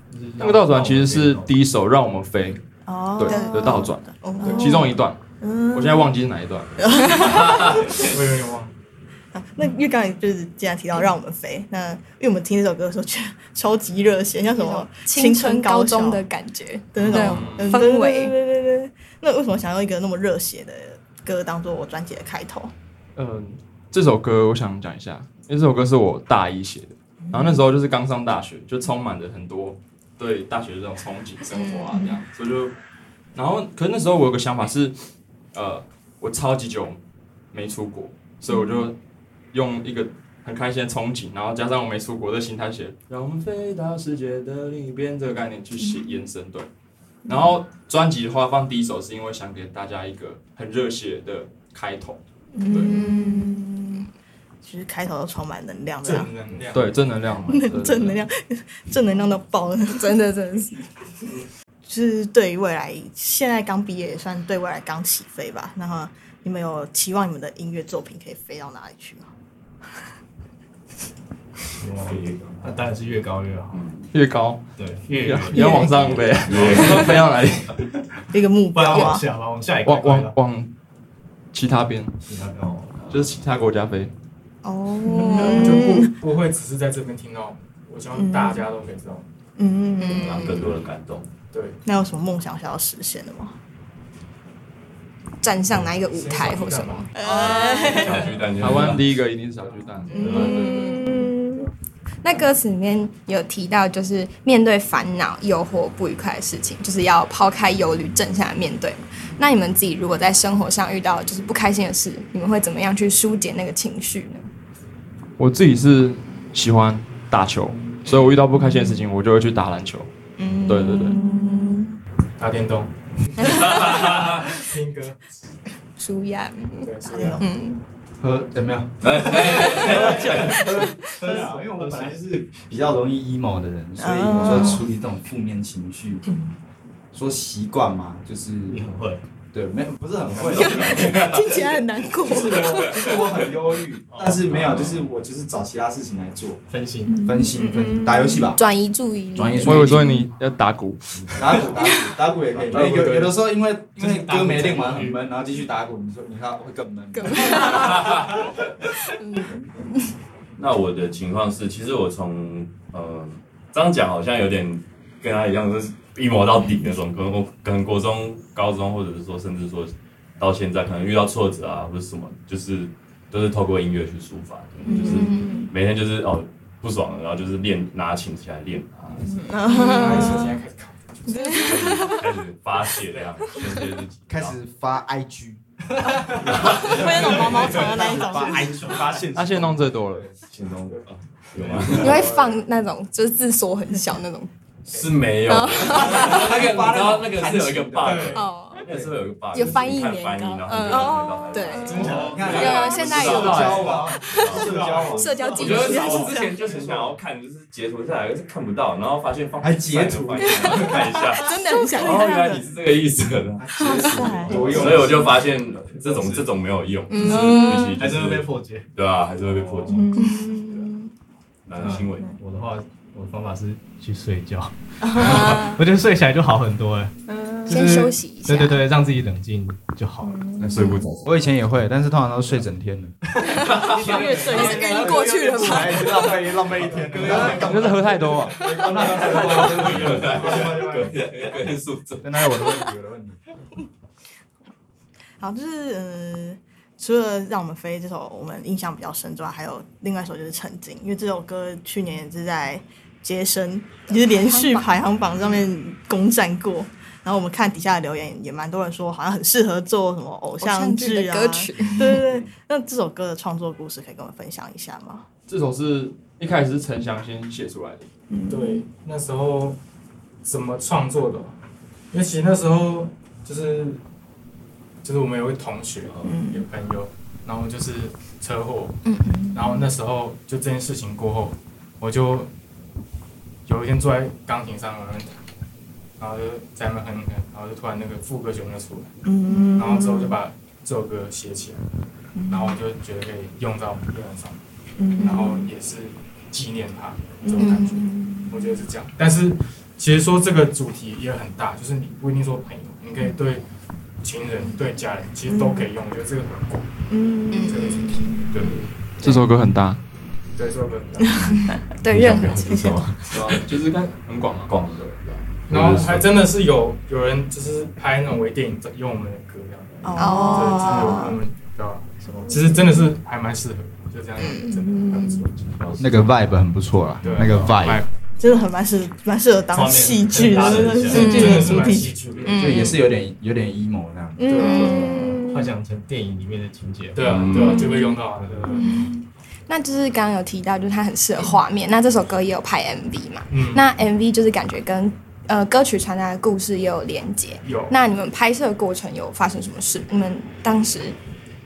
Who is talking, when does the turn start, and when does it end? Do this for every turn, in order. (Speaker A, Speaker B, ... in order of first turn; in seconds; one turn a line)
Speaker A: 0.1-1.5
Speaker B: 0.4-2.6
Speaker C: 2.9-6.1
Speaker B: 3.1-5.2
Speaker D: 3.2-3.9
Speaker E: 4.4-4.9
Speaker B: 5.7-6.7
Speaker C: 6.8-8.0
Speaker E: 8.0-8.7
Speaker C: 9.3-16.2
Speaker D: 14.5-18.3
Speaker C: 16.9-22.7
Speaker E: 17.0-17.6
Speaker B: 17.1-17.8
Speaker B: 23.1-32.7
Speaker C: 27.3-27.6
Speaker D: 31.5-32.0
Speaker B: 33.3-35.0
Speaker B: 35.5-37.0
Speaker B: 37.5-38.9
Speaker D: 38.5-38.8
Speaker B: 39.5-46.7
Speaker B: 47.3-53.0
Speaker C: 52.5-54.0
Speaker D: 52.6-54.0
Speaker C: 54.6-56.3
Speaker E: 56.0-57.1
Speaker B: 56.7-58.3
Speaker C: 57.4-60.2
Speaker D: 59.9-60.9
Speaker C: 61.9-69.3
Speaker A: 71.8-73.8
Speaker F: 72.0-72.9
Speaker F: 73.7-74.1
Speaker B: 74.1-74.6
Speaker A: 74.8-75.8
Speaker B: 75.2-77.9
Speaker C: 75.5-76.2
Speaker D: 75.5-76.3
Speaker F: 76.3-77.3
Speaker A: 76.5-77.0
Speaker C: 78.3-79.2
Speaker A: 78.7-80.3
Speaker B: 79.8-80.7
Speaker B: 81.5-82.2
Speaker A: 82.3-83.0
Speaker F: 83.0-83.2
Speaker B: 83.1-84.1
Speaker C: 84.6-86.1
Speaker D: 85.0-86.0
Speaker E: 85.3-89.2
Speaker C: 88.1-88.7
Speaker C: 89.6-90.7
Speaker D: 90.0-90.7
Speaker F: 90.1-91.3
Speaker E: 91.5-91.8
Speaker C: 91.8-93.5
Speaker D: 95.4-98.3
Speaker E: 95.7-97.2
Speaker C: 97.1-98.4
Speaker F: 97.3-99.2
Speaker E: 98.3-98.6
Speaker B: 98.5-101.1
Speaker E: 99.6-100.7
Speaker C: 100.1-101.7
Speaker D: 100.1-101.4
Speaker F: 100.2-100.7
Speaker D: 102.2-114.5
Speaker B: 115.4-120.1
Speaker C: 120.4-122.0
Speaker D: 120.4-121.9
Speaker B: 120.7-121.2
Speaker E: 122.4-122.9
Speaker F: 123.5-124.3
Speaker E: 123.5-125.2
Speaker D: 126.0-127.8
Speaker E: 126.8-127.5
Speaker C: 127.1-127.4
Speaker G: 128.2-130.6
Speaker F: 129.0-130.7
Speaker A: 129.8-132.1
Speaker D: 130.6-131.1
Speaker G: 131.2-136.2
Speaker C: 134.0-134.8
Speaker G: 137.1-138.8
Speaker A: 138.7-139.2
Speaker G: 139.5-141.4
Speaker F: 140.3-141.4
Speaker D: 140.7-143.1
Speaker G: 142.2-146.6
Speaker A: 144.1-144.6
Speaker F: 144.5-145.1
Speaker A: 146.7-147.2
Speaker C: 147.1-148.4
Speaker G: 147.2-148.6
Speaker D: 148.3-150.2
Speaker G: 149.3-150.2
Speaker B: 149.6-151.7
Speaker G: 151.4-157.9
Speaker F: 152.5-152.9
Speaker E: 152.7-153.3
Speaker A: 153.9-155.2
Speaker D: 157.1-158.3
Speaker F: 157.8-158.2
Speaker D: 159.0-159.6
Speaker F: 160.6-179.4
Speaker D: 174.8-175.7
Speaker C: 174.8-175.6
Speaker C: 179.2-180.6
Speaker E: 179.6-182.0
Speaker D: 179.7-180.4
Speaker D: 181.3-181.8
Speaker C: 181.5-182.2
Speaker F: 181.6-184.6
Speaker E: 183.0-183.6
Speaker G: 184.3-185.6
Speaker F: 186.4-187.1
Speaker C: 186.7-189.0
Speaker G: 187.2-190.3
Speaker B: 189.3-190.3
Speaker F: 190.5-192.3
Speaker E: 190.9-192.6
Speaker D: 191.9-194.5
Speaker F: 194.9-204.8
Speaker E: 194.9-195.2
Speaker D: 195.4-196.5
Speaker G: 195.8-199.2
Speaker E: 198.0-198.4
Speaker D: 198.3-198.8
Speaker D: 199.5-204.5
Speaker E: 201.8-202.5
Speaker G: 202.0-206.1
Speaker B: 203.3-203.9
Speaker E: 204.1-205.3
Speaker D: 205.1-206.4
Speaker F: 205.5-220.1
Speaker C: 205.9-206.5
Speaker A: 206.7-207.0
Speaker G: 209.6-211.2
Speaker D: 210.4-212.6
Speaker C: 211.4-212.5
Speaker G: 213.6-215.4
Speaker C: 213.9-214.8
Speaker A: 214.5-215.1
Speaker A: 215.9-216.5
Speaker D: 217.1-218.0
Speaker A: 217.9-218.9
Speaker A: 219.5-220.0
Speaker C: 219.9-220.8
Speaker D: 220.1-220.9
Speaker F: 221.7-222.3
Speaker A: 221.8-230.4
Speaker C: 225.1-225.6
Speaker D: 225.3-225.8
Speaker C: 227.3-227.8
Speaker D: 227.6-228.9
Speaker C: 230.2-231.0
Speaker F: 230.6-231.3
Speaker D: 230.8-231.0
Speaker G: 231.2-233.2
Speaker D: 233.5-236.4
Speaker A: 233.6-238.1
Speaker C: 233.8-235.6
Speaker G: 235.4-241.5
Speaker B: 237.4-238.6
Speaker F: 238.9-242.4
Speaker E: 239.0-239.8
Speaker G: 242.2-243.4
Speaker C: 245.4-265.2
Speaker D: 254.1-255.6
Speaker D: 260.6-262.2
Speaker B: 265.5-268.1
Speaker C: 268.3-268.8
Speaker E: 268.5-269.8
Speaker E: 270.4-271.6
Speaker E: 272.1-274.0
Speaker E: 275.0-279.0
Speaker C: 276.2-276.7
Speaker D: 279.1-279.8
Speaker E: 279.5-282.5
Speaker E: 283.6-285.4
Speaker E: 286.2-289.1
Speaker C: 289.2-290.4
Speaker D: 289.5-289.8
Speaker E: 289.8-291.8
Speaker C: 292.4-292.8
Speaker E: 292.5-294.6
Speaker C: 295.0-295.7
Speaker E: 295.2-303.6
Speaker D: 295.2-295.4
Speaker C: 297.4-298.3
Speaker D: 297.6-298.0
Speaker E: 304.2-306.9
Speaker C: 305.5-305.9
Speaker C: 307.1-308.4
Speaker D: 307.5-308.4
Speaker E: 307.6-308.9
Speaker F: 308.5-308.8
Speaker B: 309.2-310.0
Speaker E: 310.5-311.5
Speaker D: 311.6-313.0
Speaker F: 312.1-313.6
Speaker B: 313.3-314.7
Speaker F: 314.7-316.4
Speaker E: 315.7-325.7
Speaker C: 320.0-321.4
Speaker D: 320.1-321.4
Speaker C: 322.3-323.1
Speaker D: 324.4-325.4
Speaker F: 325.6-326.3
Speaker G: 326.0-328.0
Speaker E: 327.2-328.1
Speaker C: 328.4-332.1
Speaker A: 329.7-331.8
Speaker E: 330.5-332.9
Speaker D: 331.1-331.9
Speaker D: 332.4-333.0
Speaker G: 332.5-334.7
Speaker C: 334.4-335.6
Speaker E: 334.4-335.4
Speaker D: 334.5-335.5
Speaker A: 335.3-337.6
Speaker E: 337.1-338.9
Speaker F: 337.2-338.0
Speaker D: 337.7-338.1
Speaker A: 338.3-339.0
Speaker D: 338.7-351.2
Speaker E: 343.5-343.9
Speaker E: 347.6-348.0